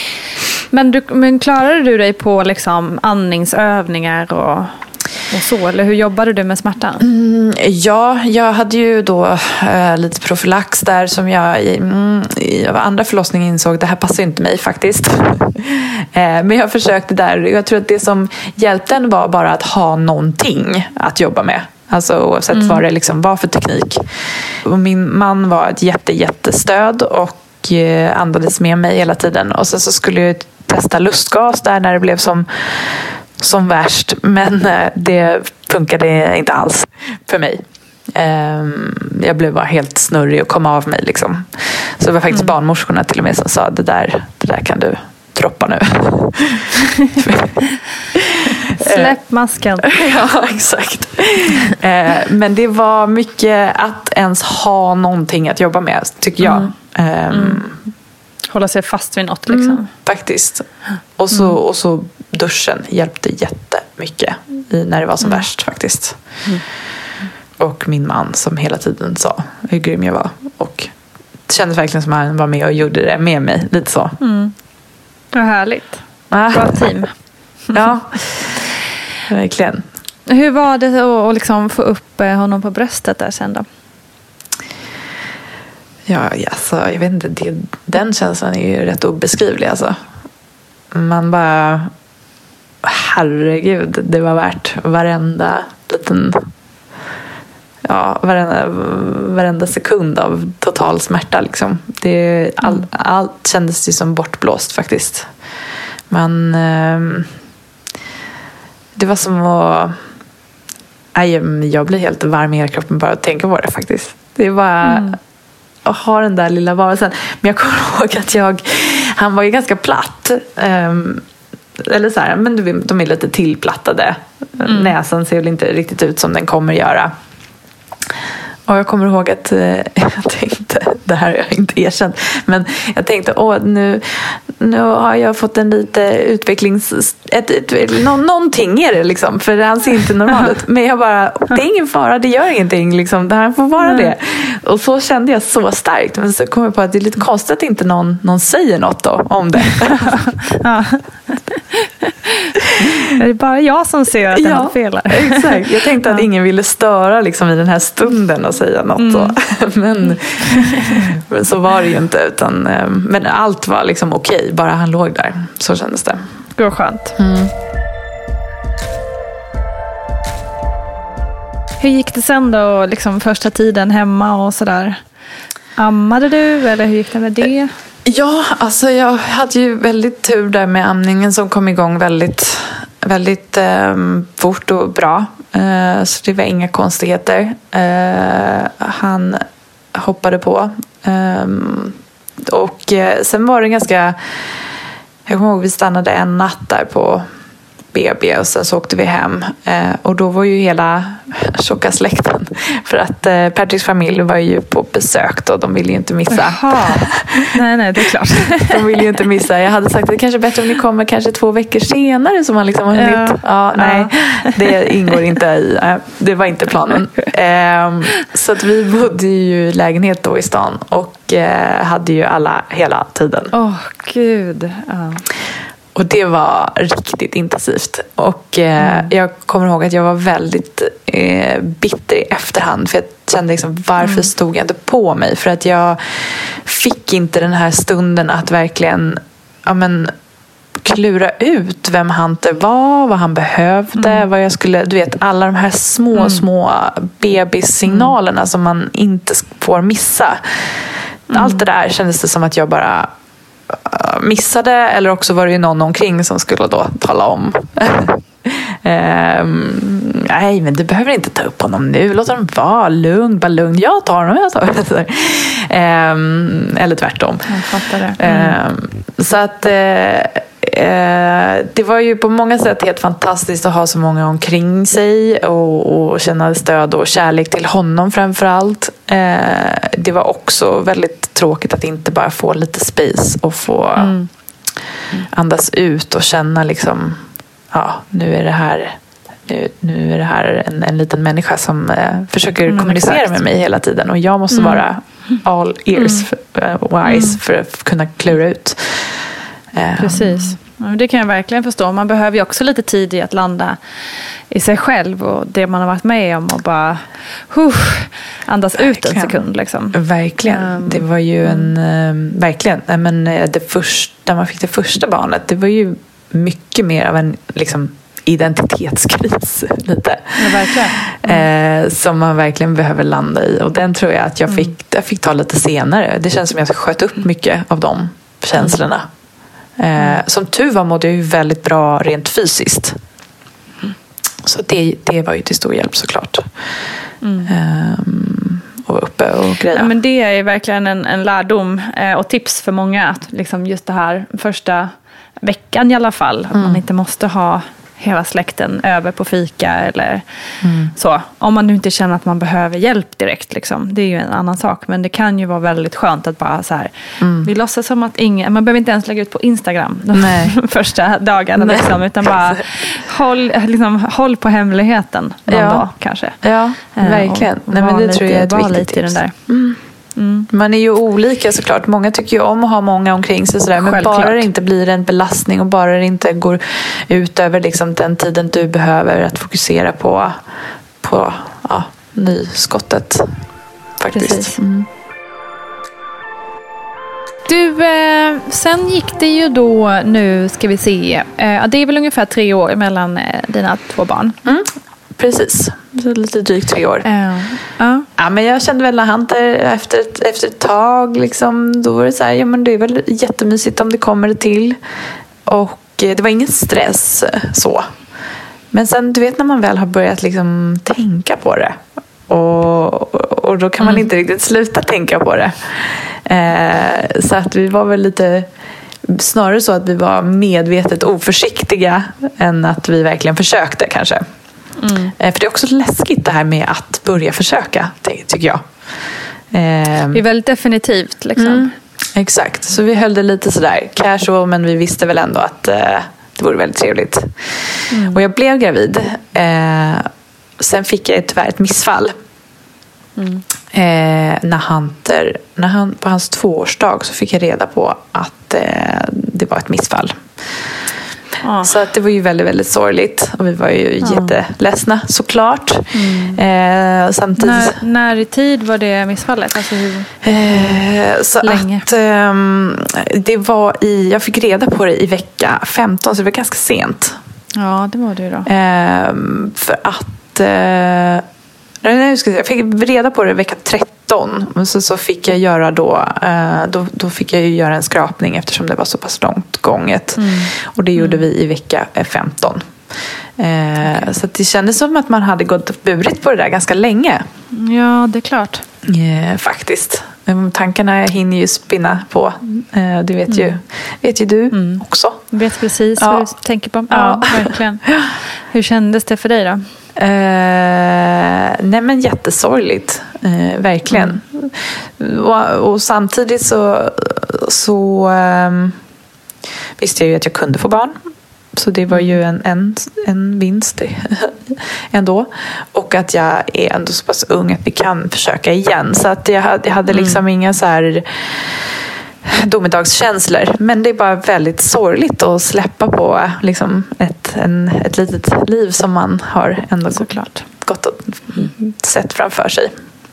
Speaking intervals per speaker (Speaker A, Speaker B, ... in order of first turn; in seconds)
Speaker A: 0.7-7.0, 22.5-22.8, 48.8-49.9, 56.4-56.7, 57.3-57.6, 58.5-59.9, 74.2-74.5, 75.3-77.1, 80.3-83.7, 114.8-115.2, 124.7-124.9, 143.8-144.1, 150.1-152.5, 153.1-156.2, 159.0-159.3, 160.7-161.0, 166.6-167.2, 171.8-175.0, 175.8-177.7, 206.3-208.8, 212.9-214.9, 223.5-225.2, 228.8-229.1, 234.0-234.3, 244.0-244.2, 246.2-246.4, 247.9-248.1, 251.3-251.6, 267.5-268.6, 284.0-284.3, 292.7-293.4, 294.5-295.4, 295.9-296.3, 297.1-297.4, 300.0-303.8, 304.5-311.7, 320.4-321.5, 324.5-324.7, 330.0-330.2, 337.2-337.5, 339.7-350.2, 350.9-366.4, 366.9-369.4, 370.2-370.5, 373.8-374.5, 384.1-384.6, 387.5-394.4, 397.1-398.1, 413.8-414.1, 424.8-425.1, 430.1-431.7, 437.9-438.2, 443.2-443.4, 451.4-451.7, 454.0-454.4, 455.9-456.4, 457.4-460.8, 461.4-461.9, 467.6-468.5, 480.2-481.2, 487.5-488.6, 493.3-493.6, 494.5-497.9, 498.5-499.7, 503.9-504.2, 511.9-512.2, 519.9-520.2
Speaker B: 7.0-47.6, 48.1-49.2, 49.8-57.8, 59.5-66.2, 67.6-70.9, 71.5-74.2, 76.3-77.0, 77.7-78.6, 79.3-79.8, 86.1-90.0, 90.9-91.9, 92.8-96.5, 97.8-105.3, 106.1-107.3, 109.0-110.0, 111.2-115.2, 115.8-121.2, 121.8-127.1, 128.7-150.2, 154.3-166.3, 167.2-167.5, 178.1-194.2, 195.3-197.3, 197.9-207.5, 208.6-223.5, 225.9-240.1, 240.8-250.7, 251.3-253.1, 253.7-284.2, 285.3-300.6, 308.8-309.4, 309.9-329.1, 329.8-333.0, 334.4-336.5, 337.4-339.9, 346.5-346.8, 350.6-350.9, 357.2-357.5, 360.1-360.6, 361.6-362.6, 365.5-369.8, 370.5-380.4, 381.0-383.3, 384.0-384.9, 394.4-397.1, 398.2-404.8, 405.4-407.9, 408.7-418.5, 419.1-424.2, 425.2-428.7, 429.5-430.2, 431.4-442.1, 443.7-450.2, 451.6-457.8, 460.2-467.2, 468.5-471.2, 471.8-482.7, 483.4-487.3, 488.9-495.2, 496.0-496.3, 496.9-498.1, 500.0-508.8, 509.8-511.0, 511.5-521.6, 522.2-532.7